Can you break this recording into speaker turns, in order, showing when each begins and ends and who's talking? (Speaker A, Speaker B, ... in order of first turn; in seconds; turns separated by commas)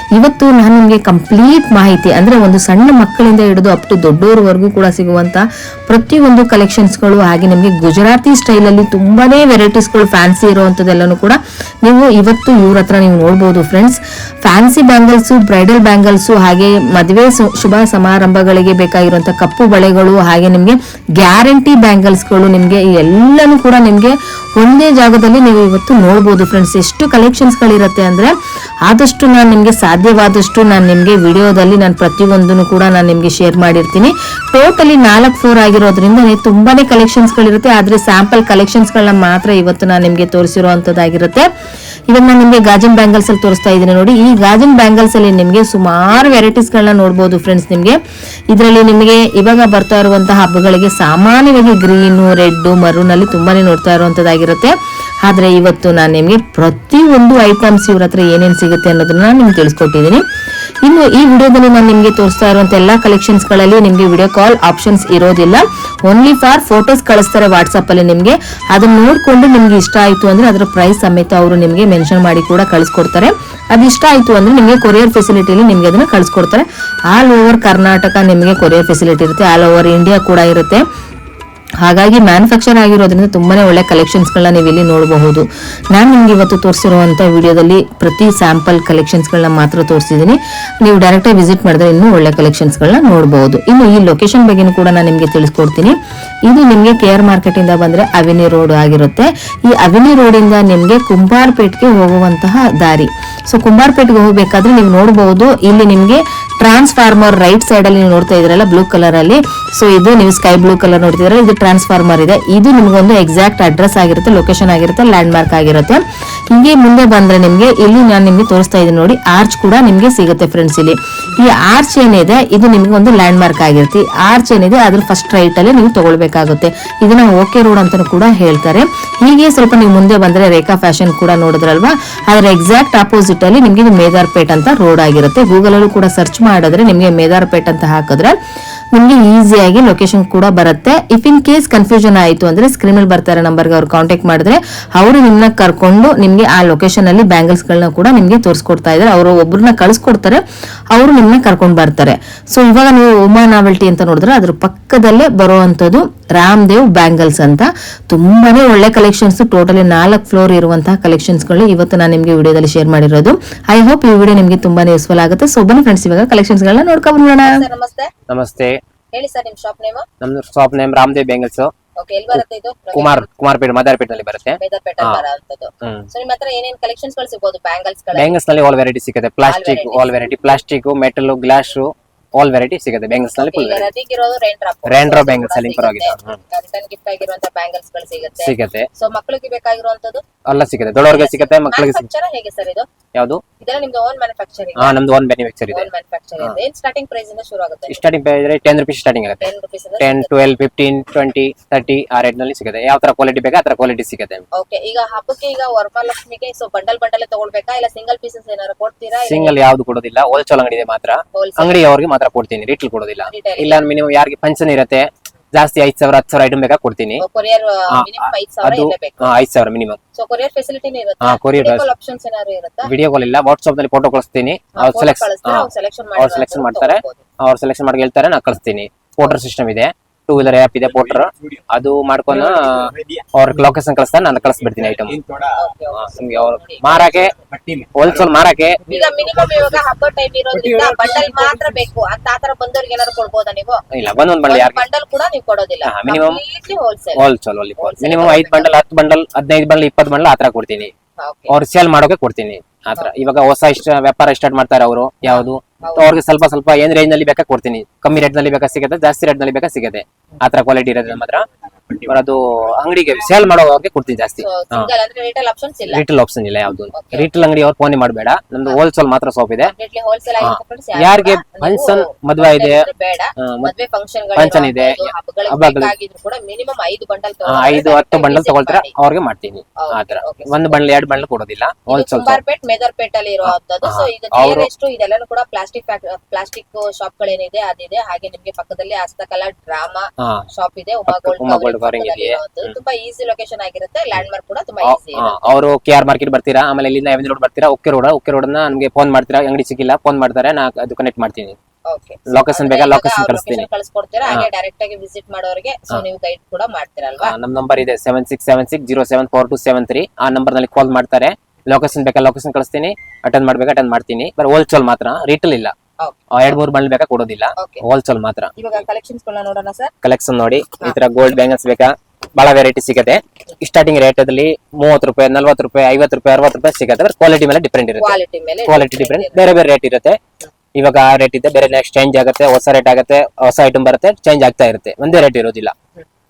Speaker A: 0.2-41.5, Speaker A: 42.1-48.0, Speaker A: 48.5-60.2, Speaker A: 60.8-80.8, Speaker A: 81.8-138.3, Speaker A: 138.9-167.6, Speaker B: 167.4-168.1, Speaker C: 168.3-168.8, Speaker B: 169.1-170.1, Speaker C: 170.2-171.7, Speaker B: 172.0-173.3, Speaker C: 172.3-175.2, Speaker B: 174.6-178.4, Speaker C: 175.8-176.1, Speaker C: 178.1-183.9, Speaker B: 179.4-180.6, Speaker B: 183.2-190.2, Speaker C: 184.8-186.4, Speaker C: 188.4-188.9, Speaker C: 190.5-192.1, Speaker B: 191.1-192.9, Speaker C: 193.1-193.4, Speaker B: 193.6-195.0, Speaker C: 194.8-196.6, Speaker B: 195.7-198.0, Speaker C: 197.9-204.4, Speaker B: 199.4-200.3, Speaker B: 204.6-209.6, Speaker C: 209.2-217.2, Speaker B: 211.3-211.9, Speaker B: 213.2-213.9, Speaker B: 217.2-219.3, Speaker C: 217.9-220.0, Speaker B: 220.1-222.9, Speaker C: 221.2-221.8, Speaker C: 222.8-235.2, Speaker B: 224.8-227.2, Speaker B: 235.6-237.3, Speaker C: 235.9-237.3, Speaker C: 237.9-239.0, Speaker B: 238.9-243.8, Speaker C: 243.9-244.8, Speaker B: 244.5-247.2, Speaker C: 245.8-246.4, Speaker C: 247.1-250.9, Speaker B: 247.8-248.8, Speaker B: 251.2-251.6, Speaker C: 251.5-261.4, Speaker B: 255.2-256.1, Speaker C: 262.0-264.9, Speaker B: 264.4-266.0, Speaker C: 265.9-269.7, Speaker B: 266.9-267.3, Speaker B: 269.6-278.9, Speaker C: 270.4-272.9, Speaker C: 273.4-273.7, Speaker C: 274.3-275.9, Speaker C: 277.4-282.4, Speaker B: 279.8-280.8, Speaker B: 281.9-295.6, Speaker C: 283.4-284.7, Speaker C: 290.2-290.5, Speaker C: 291.1-292.8, Speaker C: 294.8-301.6, Speaker B: 301.9-307.3, Speaker C: 302.3-303.7, Speaker C: 307.2-315.7, Speaker B: 316.0-316.5, Speaker C: 316.3-318.5, Speaker B: 318.6-319.9, Speaker C: 320.0-330.2, Speaker B: 328.0-329.5, Speaker C: 330.7-335.7